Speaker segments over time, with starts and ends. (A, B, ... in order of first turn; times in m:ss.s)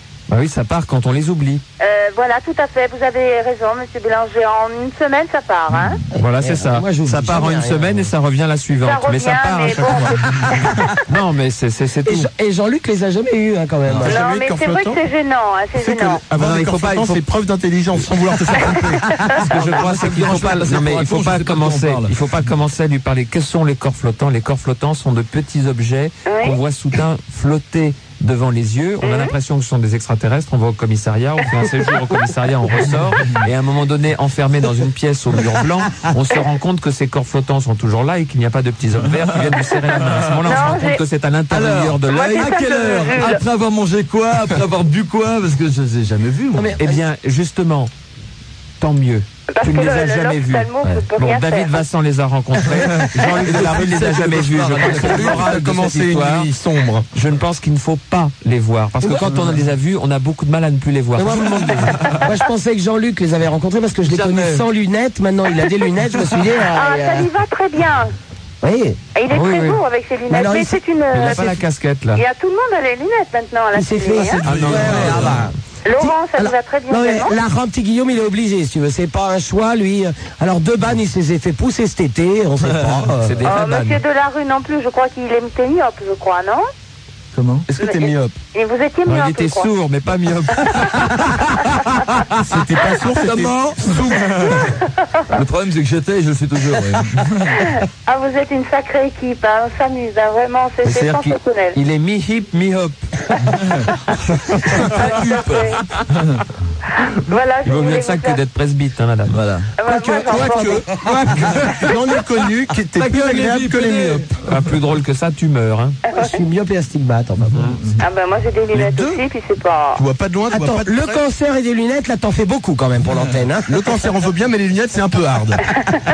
0:00.3-0:01.6 A
0:01.8-0:06.0 B
0:05.7-0:06.0 C
0:06.2-0:10.2 A
0:06.4-0:07.8 D
0:08.8-0:10.4 B
0:09.6-0:10.7 E
0:11.1-0:12.3 A
0:12.1-0:14.2 D
0:14.0-0:15.0 E
0:14.1-0:16.2 B
0:15.8-0:20.6 E
0:16.3-0:17.2 A
0:19.4-0:43.2 A
0:19.8-0:22.2 C
0:26.3-0:26.6 B
0:29.0-0:29.3 B
0:40.4-0:41.0 B
0:41.5-0:46.8 C
0:42.1-0:43.4 B
0:46.6-0:47.0 D
0:46.8-0:47.9 A
0:48.8-0:56.5 A
0:49.6-0:51.8 B
0:52.9-0:55.7 C
0:54.8-0:57.1 E
0:57.1-1:02.1 A
1:01.2-1:07.3 D
1:04.1-1:04.7 C
1:06.7-1:08.1 B
1:08.6-1:09.0 D
1:09.2-1:11.6 B
1:09.3-1:09.8 A
1:10.3-1:10.8 D
1:11.1-1:12.2 A
1:12.2-1:14.5 B
1:13.7-1:23.3 D
1:14.5-1:15.4 E
1:14.5-1:15.2 A
1:15.8-1:17.4 B
1:22.6-1:23.0 C
1:23.1-1:24.0 A
1:23.5-1:26.7 B
1:27.3-1:27.7 C
1:27.7-1:28.4 E
1:27.8-1:29.7 B
1:29.1-1:31.4 A
1:32.5-1:34.7 E
1:33.2-1:34.0 C
1:34.2-1:34.5 A
1:35.3-1:37.6 C
1:38.1-1:41.8 B
1:40.8-1:43.0 A
1:44.7-1:45.6 A
1:45.0-1:46.4 C
1:45.5-1:45.8 B
1:47.3-1:48.4 B
1:47.6-1:49.4 A
1:49.3-1:49.7 C
1:49.8-1:50.8 B
1:50.0-1:50.8 D
1:50.2-1:54.6 E
1:53.0-1:54.1 C
1:53.0-1:56.0 A
1:56.2-1:57.5 D
1:57.4-1:58.0 C
1:57.5-1:57.8 A
1:58.0-2:00.0 B
1:58.7-1:59.1 E
1:59.9-2:01.2 E
2:00.5-2:03.6 D
2:03.7-2:05.6 E